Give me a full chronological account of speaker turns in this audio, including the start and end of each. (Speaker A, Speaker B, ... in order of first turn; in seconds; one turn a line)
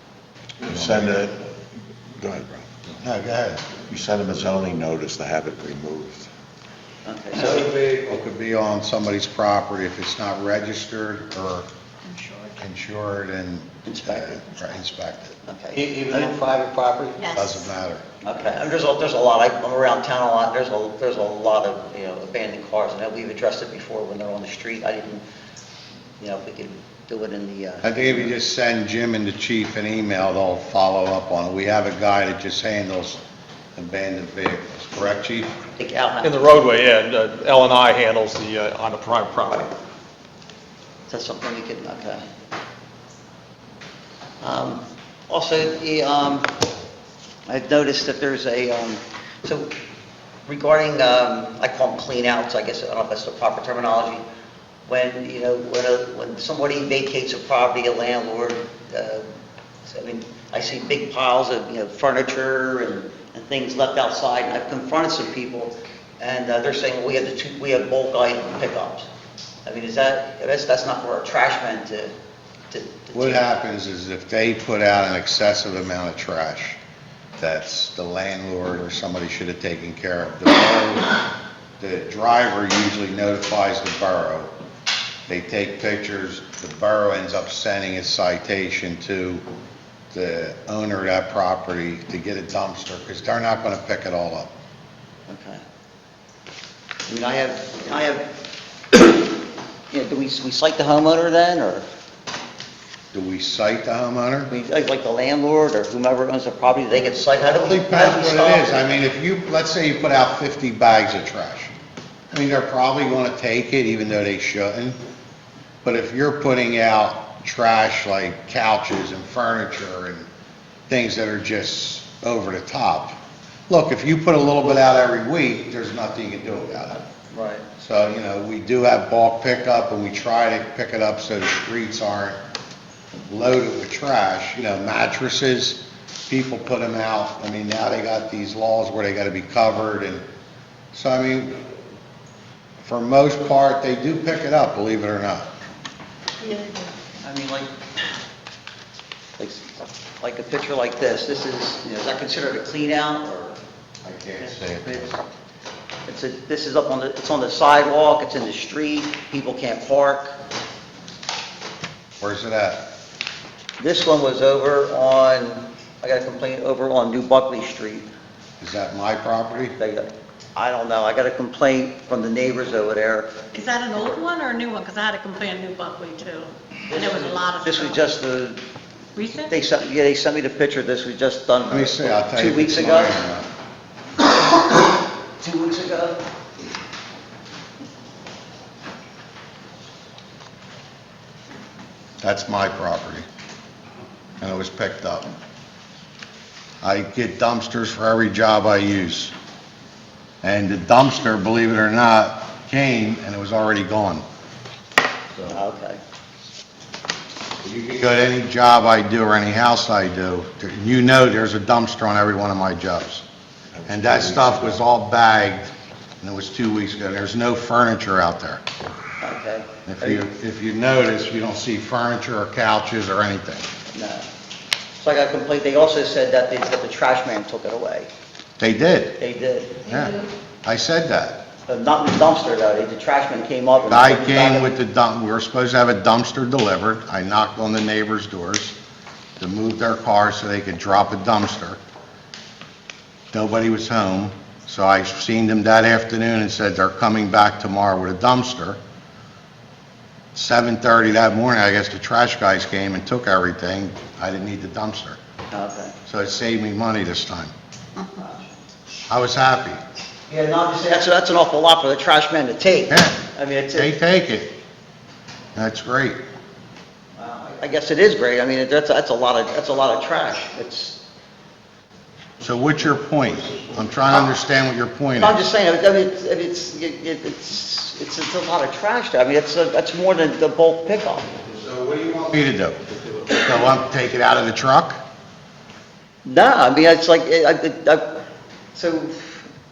Speaker A: 0.6-1.5
Speaker B: 0.7-1.0
Speaker A: 2.2-2.7
Speaker B: 3.0-3.8
Speaker A: 3.9-6.3
Speaker C: 7.0-7.7
Speaker B: 7.4-11.7
Speaker D: 12.1-12.5
Speaker B: 12.6-18.0
Speaker C: 13.8-14.4
Speaker C: 15.4-16.4
Speaker D: 17.2-17.5
Speaker C: 18.2-25.2
Speaker C: 26.2-28.3
Speaker B: 27.8-33.2
Speaker B: 33.8-35.5
Speaker C: 35.8-36.5
Speaker E: 36.2-39.7
Speaker C: 41.1-42.2
Speaker C: 44.4-46.5
Speaker C: 47.5-49.7
Speaker C: 50.5-54.2
Speaker C: 54.9-59.2
Speaker C: 59.9-69.1
Speaker C: 69.6-72.1
Speaker C: 72.7-73.5
Speaker B: 73.1-76.8
Speaker B: 77.4-81.1
Speaker B: 81.8-84.5
Speaker B: 85.3-89.4
Speaker B: 90.1-94.5
Speaker C: 95.3-95.6
Speaker C: 97.1-98.3
Speaker C: 98.9-99.2
Speaker C: 99.9-101.8
Speaker B: 103.1-104.5
Speaker C: 104.5-108.9
Speaker B: 107.4-111.7
Speaker B: 112.3-115.0
Speaker B: 115.8-120.3
Speaker B: 120.9-123.2
Speaker B: 123.7-127.0
Speaker C: 127.3-127.7
Speaker B: 127.8-132.4
Speaker B: 133.3-140.2
Speaker B: 140.9-141.6
Speaker B: 142.8-145.5
Speaker D: 146.4-146.8
Speaker C: 147.2-147.8
Speaker C: 149.4-153.6
Speaker B: 154.0-155.2
Speaker C: 154.4-155.2
Speaker C: 156.1-160.3
Speaker B: 162.2-162.9
Speaker C: 163.8-168.1
Speaker B: 168.6-169.7
Speaker C: 169.8-173.5
Speaker D: 173.5-178.0
Speaker C: 176.9-178.6
Speaker D: 179.2-179.5
Speaker C: 179.5-183.2
Speaker B: 181.7-183.5
Speaker C: 184.4-186.2
Speaker B: 192.2-193.2
Speaker B: 194.4-195.3
Speaker B: 196.8-199.3
Speaker B: 200.4-204.2
Speaker C: 205.4-206.0
Speaker B: 207.6-213.2
Speaker A: 213.8-214.8
Speaker B: 213.9-218.6
Speaker C: 219.2-220.2
Speaker B: 219.8-223.7
Speaker C: 223.9-224.3
Speaker C: 225.0-228.1
Speaker B: 228.6-229.2
Speaker C: 229.2-229.9
Speaker B: 229.8-231.4
Speaker C: 231.7-234.7
Speaker B: 233.9-238.8
Speaker B: 239.4-241.8
Speaker B: 243.3-248.8
Speaker B: 250.3-255.2
Speaker C: 255.5-255.9
Speaker B: 256.1-257.5
Speaker C: 258.0-258.5
Speaker B: 259.1-259.8
Speaker C: 260.3-263.9
Speaker B: 262.9-264.5
Speaker B: 265.5-266.2
Speaker C: 267.1-271.0
Speaker B: 272.4-275.4
Speaker C: 275.2-281.3
Speaker B: 281.5-282.8
Speaker B: 283.3-285.0
Speaker C: 286.2-288.1
Speaker C: 288.7-289.4